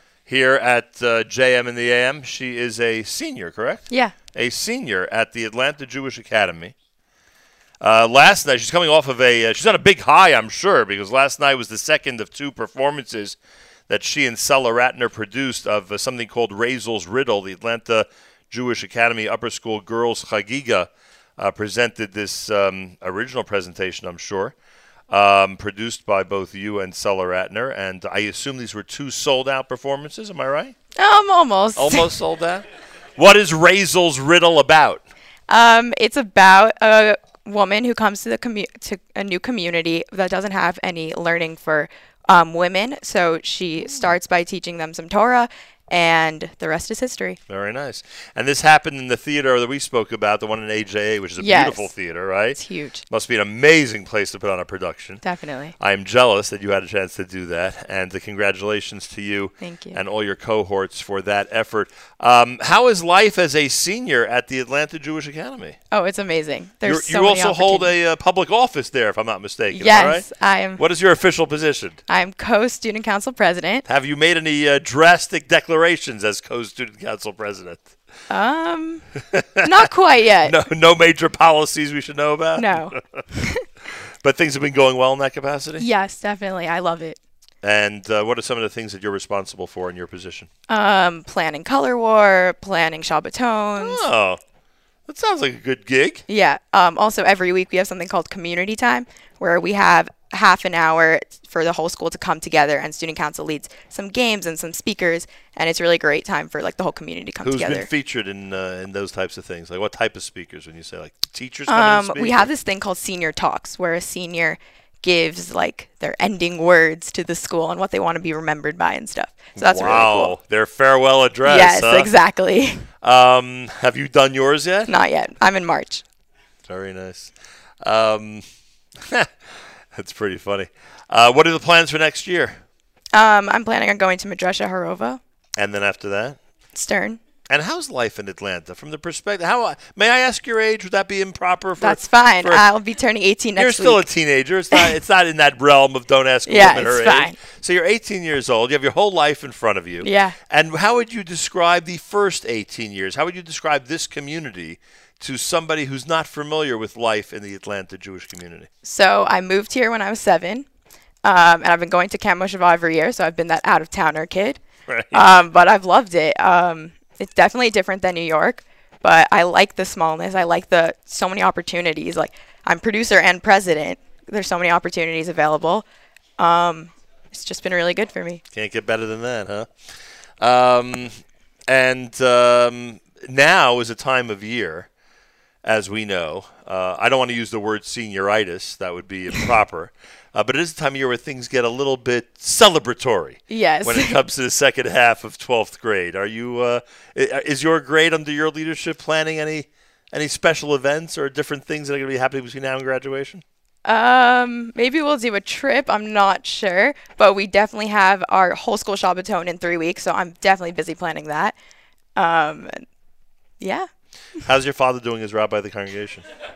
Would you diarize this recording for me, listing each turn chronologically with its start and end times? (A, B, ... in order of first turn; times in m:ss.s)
0:00.3-0:06.7 A
0:07.8-0:13.4 A
0:13.9-0:24.6 A
0:25.1-0:30.8 A
0:31.0-0:32.1 B
0:31.8-0:32.6 A
0:33.2-0:35.0 A
0:35.5-0:47.4 B
0:47.5-0:55.2 A
0:51.4-0:51.9 B
0:52.6-0:53.0 B
0:55.2-0:55.8 B
0:55.8-1:05.8 A
0:59.6-1:00.0 B
1:05.9-1:07.9 B
1:06.8-1:10.3 A
1:09.7-1:10.8 B
1:10.8-1:12.0 A
1:12.1-1:13.8 B
1:13.9-1:17.9 A
1:18.3-1:19.0 B
1:19.3-1:19.7 A
1:19.6-1:20.6 B
1:20.4-1:23.2 A
1:22.6-1:23.6 B
1:24.2-1:25.9 A
1:25.8-1:27.2 B
1:27.6-1:30.5 A
1:30.7-1:34.0 B
1:33.8-1:34.4 A
1:35.1-1:36.2 A
1:36.3-1:47.9 B
1:47.4-1:52.5 A
1:51.7-2:00.4 B
1:59.6-2:02.1 A
2:01.4-2:02.9 B
2:03.0-2:04.9 A
2:04.9-2:06.0 B
2:06.7-2:08.4 A
2:09.9-2:12.6 A
2:13.1-2:15.2 B
2:15.6-2:16.4 A
2:16.8-2:17.2 B
2:17.5-2:22.6 A
2:21.8-2:24.0 B
2:23.6-2:38.7 A
2:26.5-2:27.4 B
2:30.0-2:30.4 B
2:38.8-2:40.7 B
2:41.2-2:44.6 B
2:44.9-2:45.2 A
2:45.1-2:55.9 B
2:56.4-2:58.4 B
2:58.5-2:59.7 A
3:00.4-3:01.1 A
3:01.7-3:04.9 A
3:05.6-3:23.4 A
3:13.5-3:14.2 B
3:23.8-3:31.6 B
3:32.2-3:32.8 B
3:33.6-3:33.9 B
3:34.4-3:36.2 A